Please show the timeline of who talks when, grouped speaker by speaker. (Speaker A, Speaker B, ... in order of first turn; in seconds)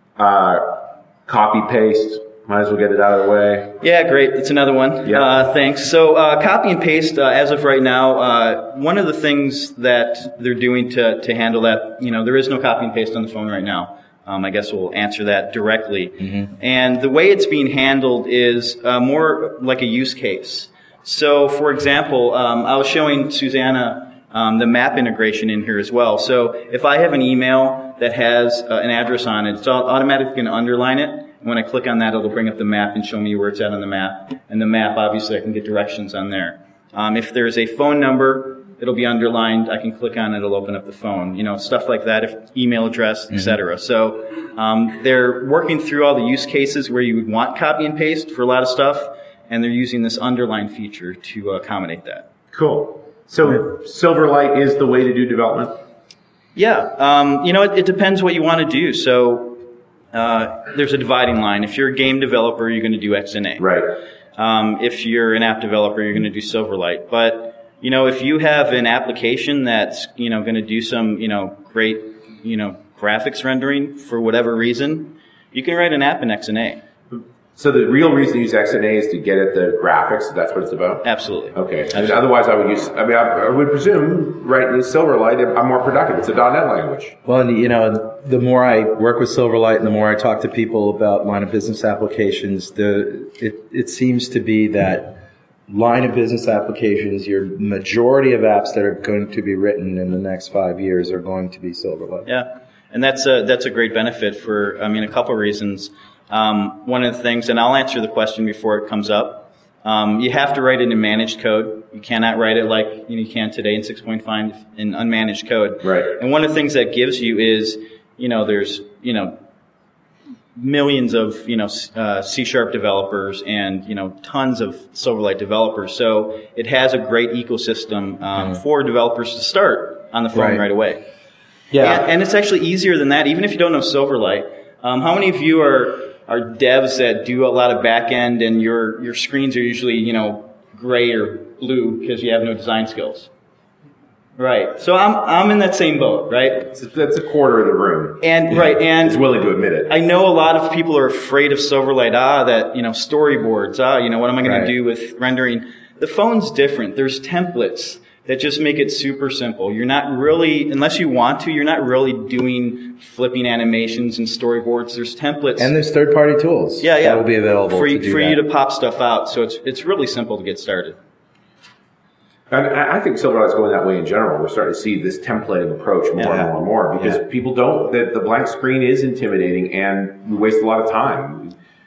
Speaker A: 0.2-3.8, 52.5-55.8, 63.6-64.0, 77.1-87.2, 115.8-116.2, 146.7-149.9, 172.5-181.6
Speaker B: 3.8-52.3, 56.6-63.7, 64.4-76.8, 81.0-82.2, 102.3-119.4, 120.5-131.0, 131.8-143.3, 144.4-146.7, 148.2-149.2, 149.9-165.7, 166.8-171.0, 176.2-176.4
Speaker C: 16.2-16.5, 43.3-43.6, 87.2-102.3, 130.3-130.7, 131.7-132.1, 154.4-154.7, 165.6-168.4, 176.2-177.2